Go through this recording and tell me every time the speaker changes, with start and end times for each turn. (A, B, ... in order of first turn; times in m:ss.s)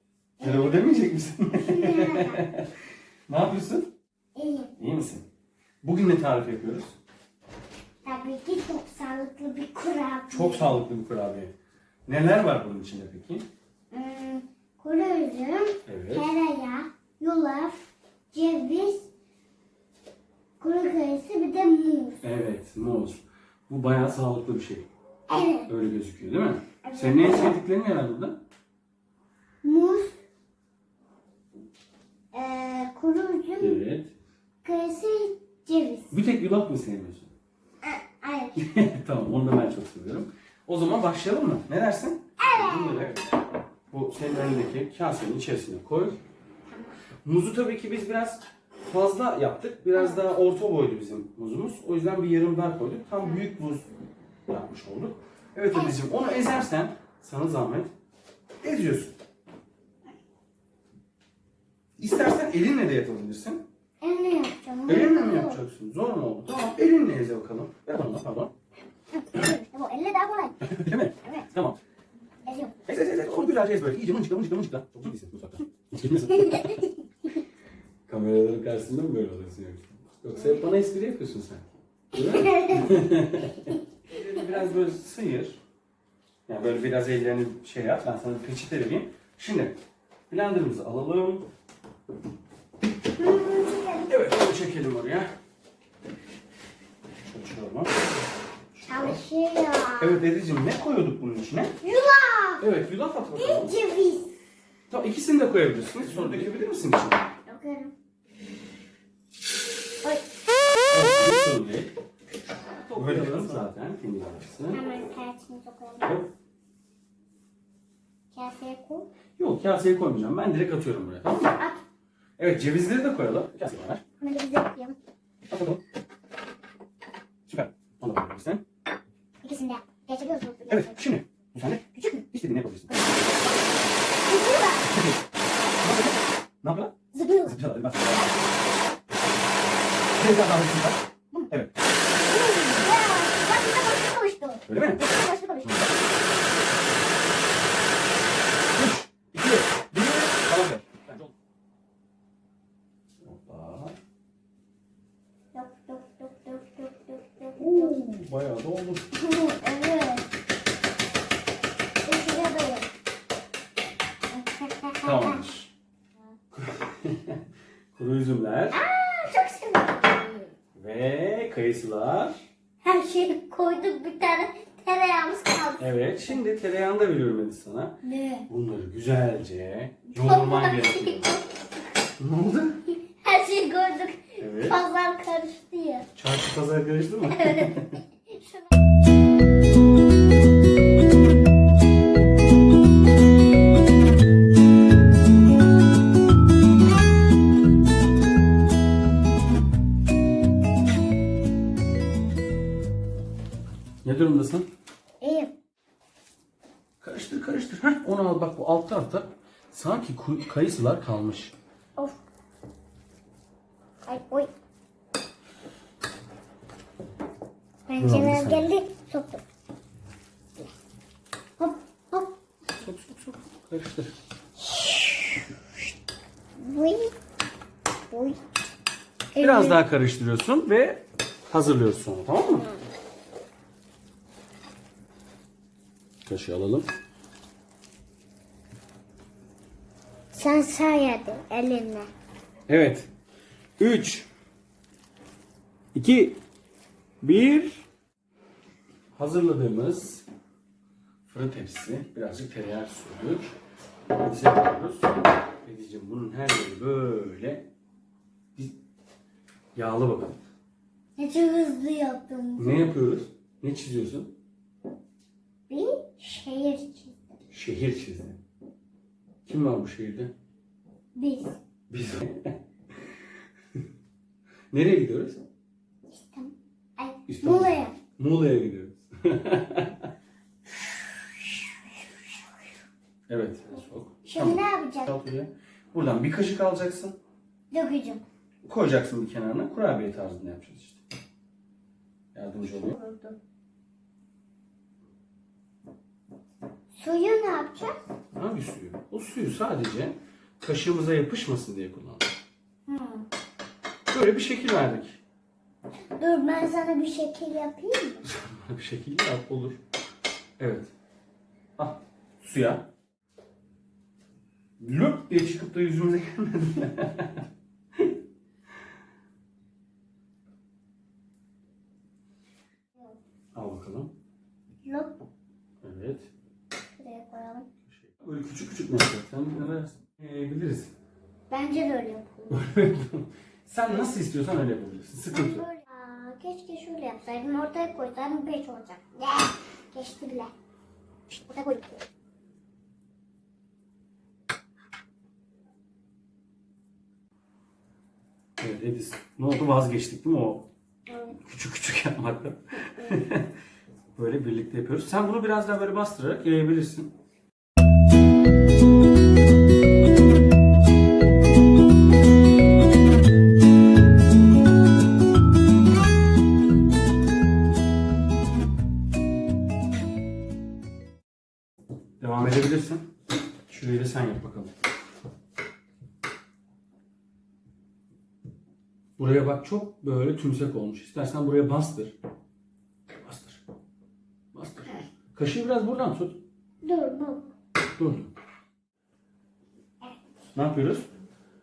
0:00.4-0:01.0 A
0:00.4-0:02.7 B
0:01.6-0:02.5 A
0:03.3-0:03.9 B
0:04.3-0:04.7 A
0:04.8-0:05.2 B
0:05.8-0:07.0 B
0:08.0-0:10.8 A
0:10.3-0:11.5 B
0:12.1-0:13.4 B
0:13.9-0:19.1 A
0:15.8-0:16.3 B
0:20.6-0:22.2 A
0:22.2-0:24.9 B
0:25.3-0:25.7 A
0:25.7-0:28.4 B
0:26.8-0:27.6 A
0:29.6-0:30.2 A
0:32.3-0:33.8 A
0:33.6-0:34.1 B
0:34.6-0:36.2 A
0:36.1-0:37.3 B
0:37.8-0:38.7 A
0:38.6-0:43.3 B
0:42.4-0:43.2 A
0:43.9-0:46.2 B
0:47.2-0:53.9 B
0:49.9-0:50.2 A
0:54.5-0:57.9 B
0:55.7-0:56.0 A
0:58.6-0:59.1 B
1:02.0-1:03.6 B
1:04.0-1:05.6 A
1:04.8-1:08.5 B
1:09.2-1:10.7 A
1:10.6-1:11.8 B
1:12.4-1:12.7 A
1:12.8-1:16.8 B
1:16.4-1:16.9 A
1:18.1-1:25.6 B
1:22.2-1:23.0 A
1:26.5-1:29.8 B
1:30.3-1:31.5 B
1:33.2-1:34.2 A
1:34.1-1:35.3 B
1:37.2-1:38.0 B
1:38.8-1:39.2 B
1:38.8-1:40.2 A
1:40.0-1:41.7 B
1:41.8-1:42.6 A
1:42.6-1:43.7 B
1:43.3-1:44.3 A
1:44.9-1:47.3 B
1:47.4-1:47.9 A
1:50.9-1:51.9 B
1:52.9-1:54.8 B
1:54.7-1:56.2 A
1:56.0-1:56.3 B
1:58.3-1:59.1 A
1:59.4-2:01.6 B
2:01.4-2:01.8 A
2:02.4-2:04.0 B
2:04.2-2:05.0 A
2:05.5-2:05.8 B
2:07.5-2:08.6 B
2:09.4-2:11.0 A
2:10.7-2:13.2 B
2:11.8-2:12.2 A
2:14.3-2:15.0 A
2:14.8-2:15.2 B
2:15.8-2:16.9 B
2:17.1-2:17.6 A
2:17.4-2:18.4 B
2:20.2-2:21.7 B
2:22.2-2:25.9 A
2:24.7-2:25.0 B
2:28.8-2:31.3 B
2:33.2-2:34.0 B
2:35.5-2:38.0 A
2:37.6-2:39.1 B
2:39.1-2:40.3 A
2:42.0-2:42.9 A
2:44.3-2:45.4 A
2:45.0-2:45.7 B
2:46.6-2:47.4 B
2:47.9-2:48.8 B
2:48.7-2:50.5 A
2:50.7-2:52.4 B
2:52.8-2:55.9 A
2:55.8-3:01.4 B
2:58.0-2:58.4 A
3:00.1-3:01.4 A
3:02.2-3:02.8 B
3:03.1-3:06.1 A
3:04.4-3:04.8 B
3:06.1-3:08.0 B
3:07.3-3:07.7 A
3:24.0-3:24.7 B
3:25.2-3:25.5 A
3:27.0-3:31.5 B
3:34.0-3:34.5 A
3:37.9-3:39.4 A
3:38.0-3:38.7 B
3:41.6-3:42.4 A
3:42.8-3:44.1 B
3:44.6-3:45.4 A
3:46.6-3:47.1 A
3:48.1-3:48.4 A
3:49.3-3:49.8 A
3:49.4-3:52.7 B
3:52.5-3:52.8 A
3:56.2-3:56.9 B
4:00.3-4:02.1 A
4:02.7-4:03.1 B
4:03.8-4:04.3 B
4:05.9-4:06.4 B
4:07.2-4:07.8 B
4:09.2-4:10.2 B
4:11.2-4:13.6 B
4:14.2-4:15.1 B
4:15.6-4:17.6 B
4:19.7-4:20.4 B
4:21.2-4:22.9 A
4:22.6-4:24.3 B
4:25.7-4:27.2 A
4:27.5-4:28.4 B
4:29.4-4:30.3 B
4:31.2-4:31.6 A
4:31.9-4:32.6 B
4:34.7-4:35.4 B
4:36.1-4:38.0 A
4:37.3-4:40.1 B
4:43.3-4:47.2 B
4:44.2-4:45.1 A
4:47.7-4:48.2 A
4:48.6-4:51.0 B
4:52.3-4:53.0 B
4:52.6-4:53.4 A
4:57.0-4:58.0 A
4:58.3-5:02.2 B
5:02.9-5:03.3 A
5:04.1-5:05.2 B
5:06.2-5:08.2 A
5:08.2-5:09.8 B
5:10.6-5:10.9 B
5:11.8-5:12.8 B
5:14.8-5:17.4 B
5:23.5-5:24.1 B
5:24.8-5:25.2 A
5:25.8-5:26.3 B
5:27.0-5:27.7 A
5:27.9-5:30.9 B
5:31.5-5:32.6 A
5:32.5-5:35.7 B
5:33.9-5:34.1 A
5:35.3-5:40.5 A
5:41.3-5:42.0 A
5:48.6-5:50.7 B
5:51.1-5:51.4 A
5:51.4-5:53.5 B
5:54.1-5:57.1 B
6:12.2-6:13.1 B
6:13.7-6:14.7 B
6:19.2-6:22.2 B
6:23.2-6:23.6 B
6:24.5-6:26.4 B
6:26.8-6:27.5 A
6:28.0-6:28.3 B
6:30.5-6:31.1 B